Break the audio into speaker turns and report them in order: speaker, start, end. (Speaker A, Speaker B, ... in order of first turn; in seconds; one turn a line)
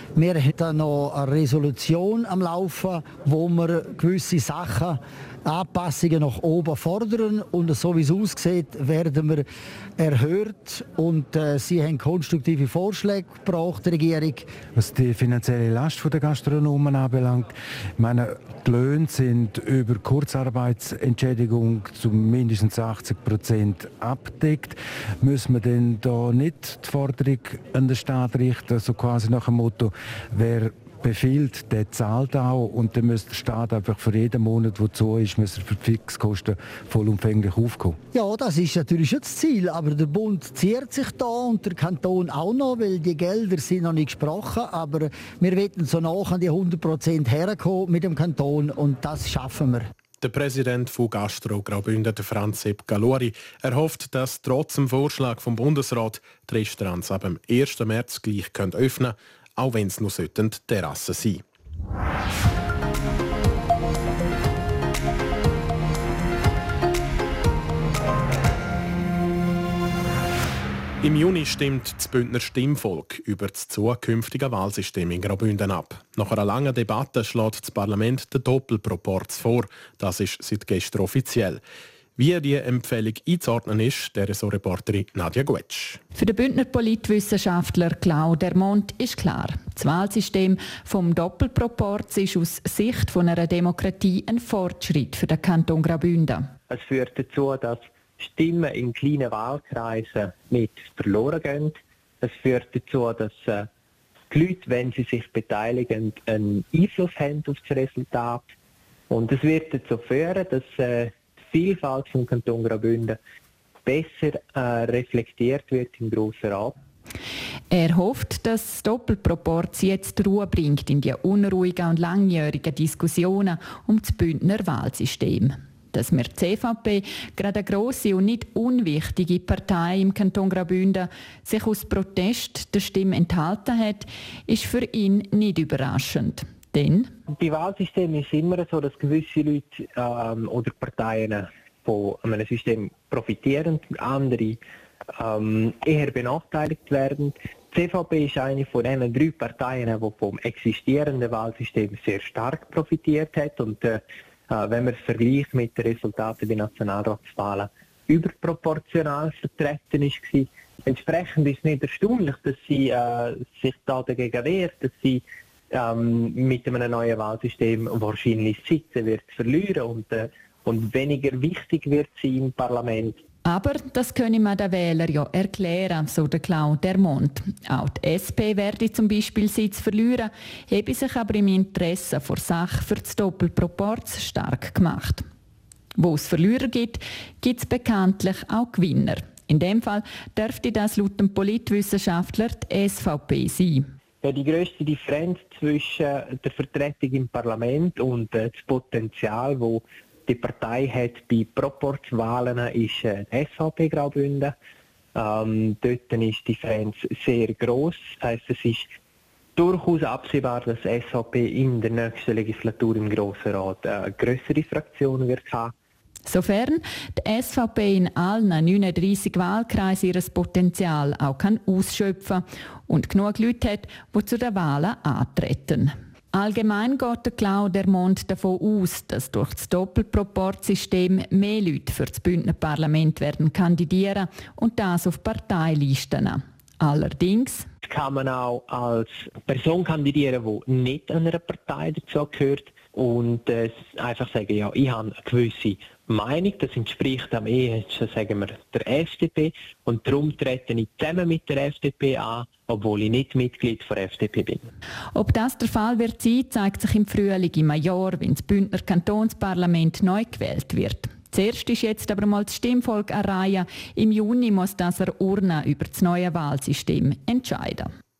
Speaker A: 0.1-9.4
Speaker A: 10.0-14.5
Speaker B: 14.7-38.0
Speaker A: 38.1-49.9
Speaker C: 50.2-61.4
Speaker C: 71.0-81.6
Speaker C: 82.2-86.0
Speaker D: 86.1-96.5
Speaker E: 96.7-103.7
Speaker E: 104.3-108.5
Speaker E: 109.1-113.2
Speaker E: 113.8-116.8
Speaker D: 117.7-137.1
Speaker E: 137.3-144.6
Speaker E: 145.2-173.2
Speaker D: 173.4-185.2
Speaker D: 186.0-193.9
Speaker E: 194.2-204.5
Speaker E: 205.1-208.9
Speaker E: 209.6-215.7
Speaker D: 216.2-237.7
Speaker E: 237.8-254.6
Speaker D: 255.1-267.9